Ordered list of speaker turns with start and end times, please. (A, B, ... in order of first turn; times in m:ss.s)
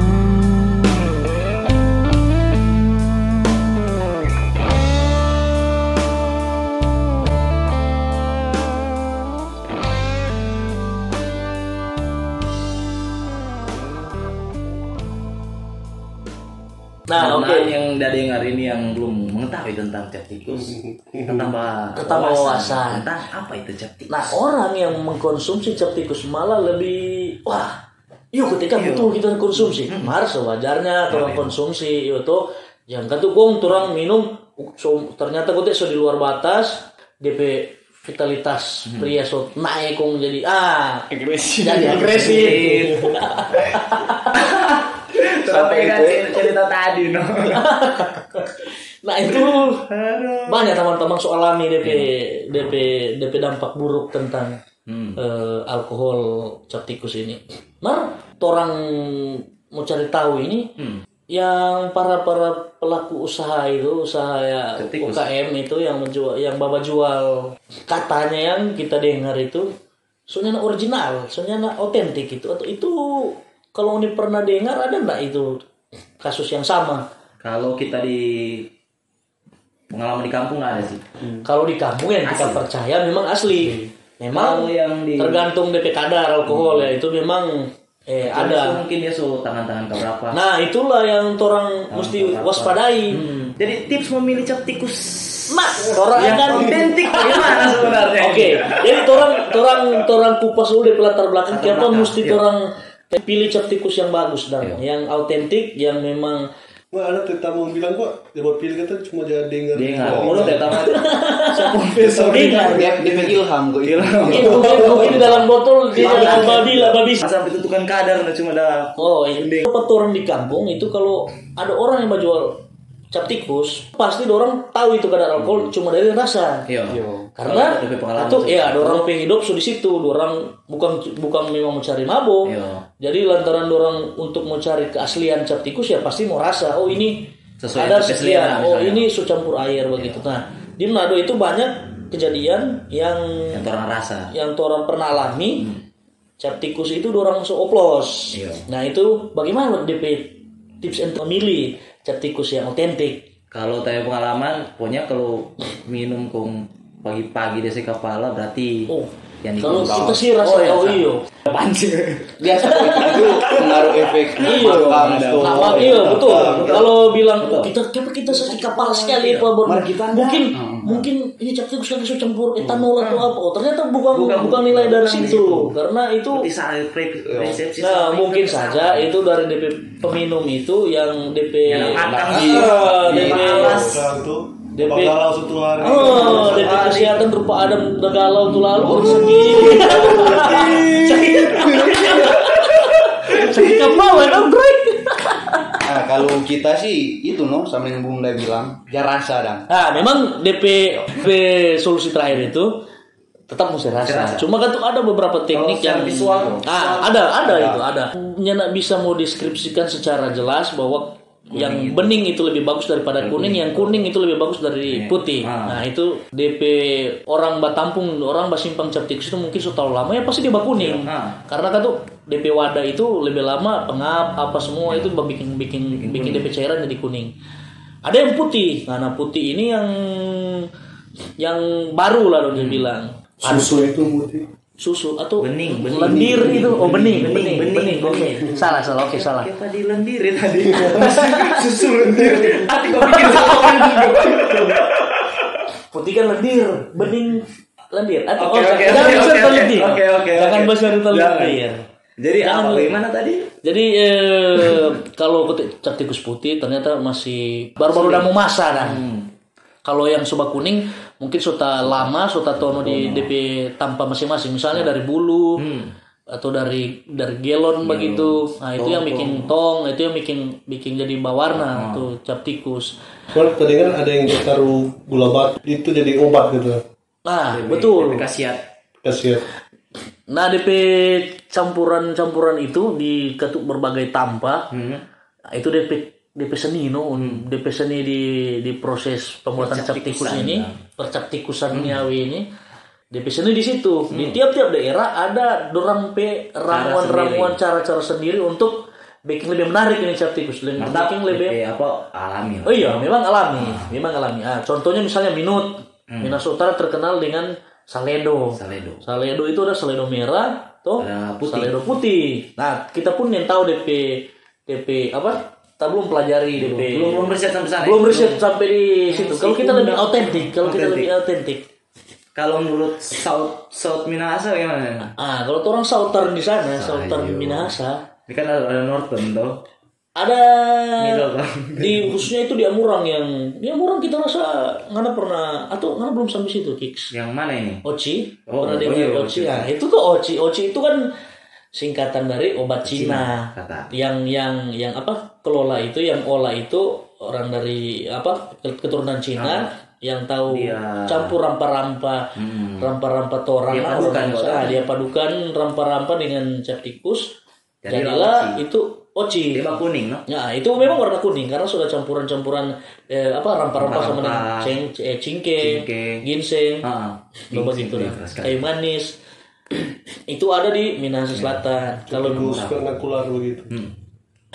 0:17.1-0:17.7 A
0:17.2-0:24.4 B
0:20.6-0:21.5 C
0:22.0-0:23.1 A
0:24.1-0:41.1 A
0:28.8-0:30.1 B
0:31.1-0:31.5 B
0:41.1-0:42.9 D
0:41.6-0:44.4 A
0:42.1-0:43.2 B
0:44.3-0:47.7 B
0:45.4-0:46.5 D
0:47.5-0:49.9 A
0:49.6-0:50.7 B
0:50.5-0:54.6 A
0:51.8-0:52.1 B
0:54.9-0:55.2 B
0:55.2-1:00.7 A
1:00.8-1:01.0 B
1:01.3-1:09.7 A
1:04.8-1:05.3 B
1:10.3-1:15.6 A
1:16.2-1:17.1 A
1:17.4-1:18.7 B
1:19.9-1:21.0 B
1:21.4-1:28.8 A
1:22.2-1:22.6 B
1:24.3-1:25.4 B
1:26.5-1:26.9 B
1:28.2-1:30.4 B
1:30.3-1:33.2 A
1:31.9-1:39.4 B
1:35.5-1:46.5 A
1:36.4-1:36.8 C
1:41.5-1:42.5 B
1:46.9-1:50.9 C
1:49.7-1:59.6 B
1:50.0-1:50.5 D
1:50.7-1:51.8 A
1:52.0-1:53.2 C
1:52.3-1:52.8 A
1:52.6-1:55.3 D
1:54.3-1:57.3 A
1:56.2-1:56.6 C
1:59.0-2:02.6 A
2:03.1-2:06.7 A
2:06.7-2:09.1 B
2:06.9-2:07.3 D
2:07.4-2:23.6 A
2:12.4-2:12.8 B
2:17.6-2:19.1 B
2:20.0-2:20.2 B
2:23.5-2:24.3 B
2:24.3-2:25.7 A
2:26.4-2:33.3 A
2:28.3-2:28.6 B
2:33.5-2:38.9 B
2:38.9-2:41.3 A
2:39.4-2:47.7 B
2:39.7-2:40.2 D
2:42.4-2:46.9 D
2:42.6-2:56.5 A
2:48.3-2:49.5 B
2:49.6-2:51.1 D
2:53.0-2:53.3 B
2:54.1-2:55.7 B
2:56.3-2:59.1 B
2:57.2-2:57.6 D
2:57.8-3:03.9 A
3:01.7-3:04.1 B
3:02.2-3:02.7 D
3:03.0-3:06.7 C
3:04.7-3:05.2 A
3:05.8-3:15.8 A
3:05.9-3:07.2 B
3:09.8-3:12.0 D
3:10.2-3:12.2 B
3:15.8-3:19.7 D
3:19.7-3:22.8 A
3:23.5-3:47.3 A
3:24.0-3:24.5 B
3:25.5-3:27.2 B
3:27.4-3:27.8 D
3:31.5-3:32.2 B
3:33.2-3:34.1 B
3:34.9-3:35.8 B
3:40.8-3:41.4 B
3:45.9-3:46.5 B
3:48.0-3:50.7 A
3:51.4-3:53.9 A
3:52.6-3:52.9 B
3:53.4-3:54.5 C
3:54.8-3:59.5 A
3:55.4-4:05.6 B
3:56.1-3:56.5 D
4:00.8-4:01.7 A
4:02.2-4:02.6 C
4:02.8-4:04.4 A
4:05.9-4:11.8 A
4:08.4-4:11.6 B
4:12.2-4:13.5 B
4:12.4-4:13.0 A
4:13.6-4:19.0 A
4:17.8-4:19.3 B
4:19.8-4:25.6 A
4:22.6-4:23.3 B
4:25.6-4:25.9 B
4:26.3-4:33.0 A
4:27.8-4:29.5 B
4:31.6-4:32.1 B
4:33.3-4:36.8 C
4:37.2-4:38.3 A
4:37.5-4:38.7 B
4:39.0-4:39.4 C
4:40.3-4:44.7 A
4:44.7-4:45.0 B
4:45.5-4:52.5 A
4:47.2-4:47.4 B
4:49.6-4:50.8 B
4:51.7-4:52.0 B
4:53.1-5:01.6 A
4:54.1-4:54.4 B
4:56.7-4:57.6 B
5:00.8-5:03.9 B
5:02.7-5:21.6 A
5:06.1-5:06.4 B
5:08.6-5:09.0 B
5:11.0-5:11.8 B
5:16.6-5:18.4 B
5:19.1-5:21.1 B
5:22.4-5:25.1 B
5:25.2-5:28.0 A
5:26.8-5:27.7 B
5:28.3-5:29.6 B
5:30.2-5:37.1 A
5:31.0-5:32.2 B
5:37.1-5:37.8 B
5:37.8-5:41.1 A
5:38.5-5:39.7 B
5:41.7-5:57.4 A
5:42.8-5:43.9 B
5:49.4-5:49.7 B
5:50.5-5:51.4 B
5:52.4-5:52.9 B
5:53.7-5:54.8 B
5:57.8-5:58.6 B
5:57.9-5:59.8 A
5:59.5-6:00.2 B
6:00.3-6:06.9 A
6:03.8-6:04.7 B
6:05.6-6:06.2 B
6:06.8-6:08.6 B
6:07.5-6:09.2 A
6:10.3-6:12.6 A
6:11.4-6:11.6 B
6:12.1-6:13.7 C
6:12.2-6:12.8 B